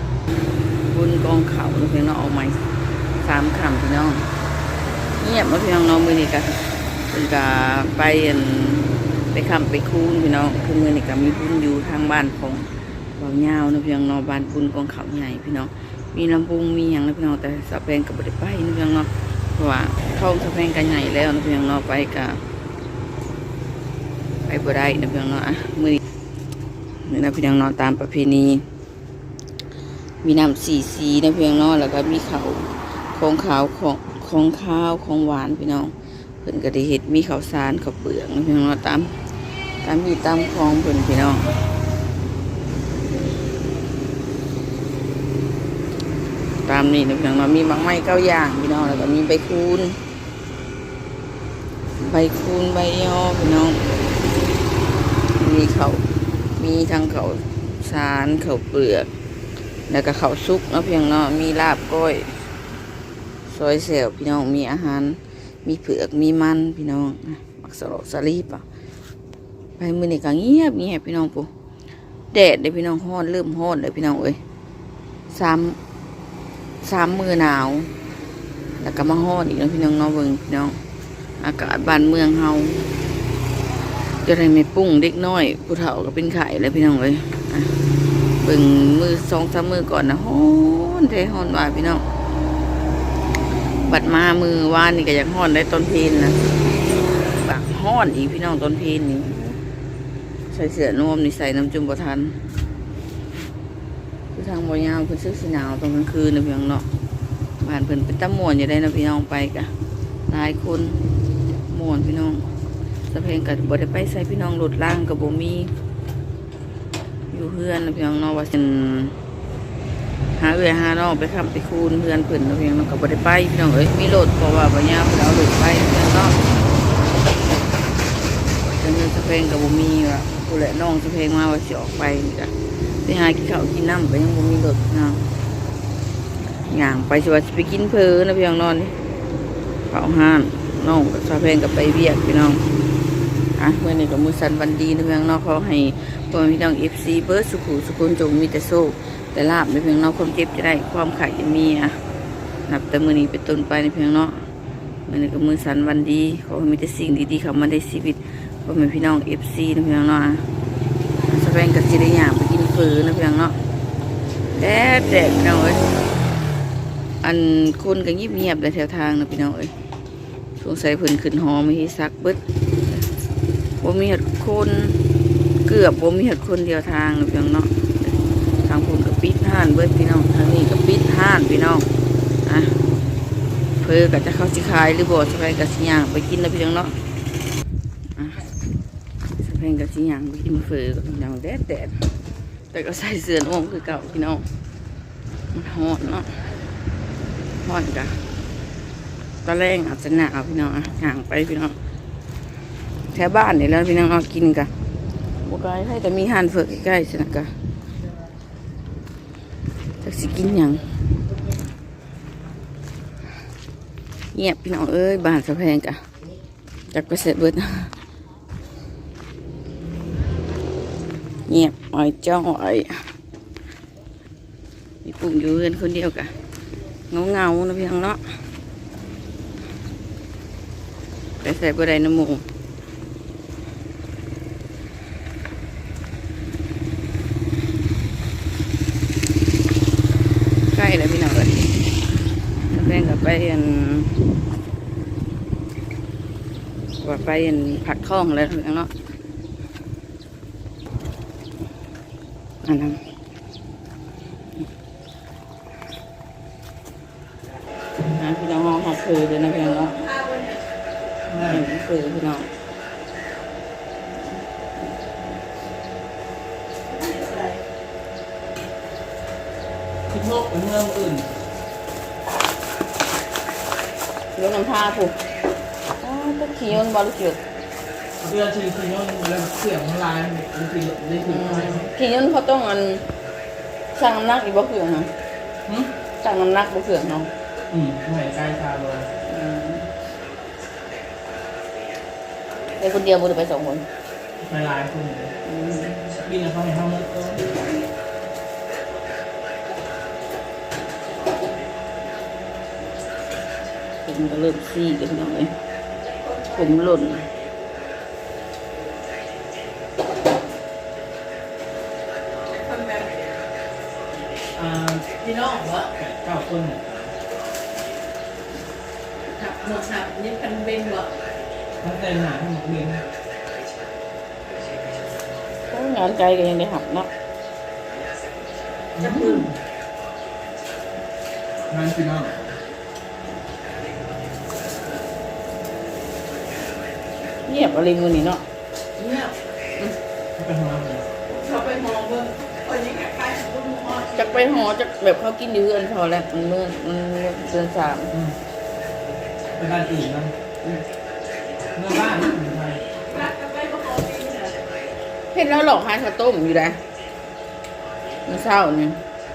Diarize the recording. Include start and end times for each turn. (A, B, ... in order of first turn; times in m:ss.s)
0:00.9-0:02.6 A
0:03.2-0:04.3 A
0:05.2-0:22.4 A
0:24.5-0:26.0 A
0:27.0-0:28.6 A
0:30.2-0:39.2 A
0:39.7-0:41.5 A
0:46.6-0:50.0 A
0:52.0-0:53.9 A
0:55.4-0:56.0 A
0:56.6-0:59.1 A
0:59.9-1:02.4 A
1:03.4-1:08.6 A
1:09.8-1:11.5 A
1:12.3-1:14.4 A
1:15.3-1:15.8 A
1:16.8-1:17.9 A
1:18.8-1:20.8 A
1:21.4-1:22.8 A
1:24.2-1:27.7 A
1:28.4-1:32.0 A
1:33.8-1:36.4 A
1:37.3-1:39.6 A
1:40.5-1:42.4 A
1:44.3-1:46.8 A
1:47.6-1:49.7 A
1:50.3-1:51.0 A
1:51.7-1:52.5 A
1:53.1-1:55.7 A
1:57.3-1:59.2 A
2:00.4-2:06.4 A
2:08.6-2:15.2 A
2:16.7-2:19.0 A
2:19.9-2:22.6 A
2:23.6-2:32.0 A
2:32.7-2:34.5 A
2:35.0-2:40.5 A
2:41.2-2:43.6 A
2:44.6-2:45.8 A
2:47.2-2:49.7 A
2:50.6-2:52.4 A
2:53.8-2:55.0 A
2:55.6-3:01.9 A
3:02.4-3:02.8 A
3:03.8-3:06.9 A
3:08.2-3:08.5 A
3:09.4-3:12.0 A
3:12.7-3:14.4 A
3:15.5-3:16.4 A
3:17.6-3:18.2 A
3:19.4-3:21.8 A
3:23.1-3:24.7 A
3:25.4-3:27.5 A
3:30.0-3:30.9 A
3:34.3-3:36.0 A
3:36.9-3:37.9 A
3:41.5-3:43.0 A
3:45.0-3:46.3 A
3:47.1-3:48.4 A
3:51.4-3:52.4 A
4:00.7-4:01.8 A
4:02.7-4:04.1 A
4:07.0-4:08.9 A
4:12.6-4:13.0 A
4:18.0-4:20.0 A
4:19.4-4:20.6 B
4:21.3-4:21.6 C
4:21.4-4:22.5 A
4:26.9-4:27.6 B
4:30.1-4:31.3 C
4:34.4-4:35.2 A
4:36.0-4:37.4 A
4:38.2-4:41.9 C
4:41.2-4:43.1 A
4:43.9-4:45.1 A
4:46.2-4:47.3 A
4:47.7-4:49.1 C
4:49.3-4:49.9 A
4:52.8-4:53.8 A
4:54.4-4:55.3 C
4:55.4-4:56.2 A
4:56.1-4:57.4 C
5:04.0-5:05.6 A
5:06.2-5:06.8 B
5:06.5-5:07.2 A
5:12.4-5:13.4 B
5:14.5-5:15.1 C
5:15.2-5:15.9 B
5:16.0-5:17.1 C
5:19.3-5:21.2 B
5:21.8-5:23.0 C
5:25.7-5:27.1 A
5:29.0-5:29.6 C
5:29.0-5:29.5 B
5:31.7-5:32.6 C
5:37.4-5:38.4 A
5:39.0-5:39.3 B
5:40.4-5:41.1 C
5:41.3-5:44.4 B
5:44.1-5:48.1 A
5:49.5-5:50.3 C
5:51.8-5:52.9 C
5:53.0-5:54.6 B
5:55.3-5:56.8 A
5:58.2-5:59.0 A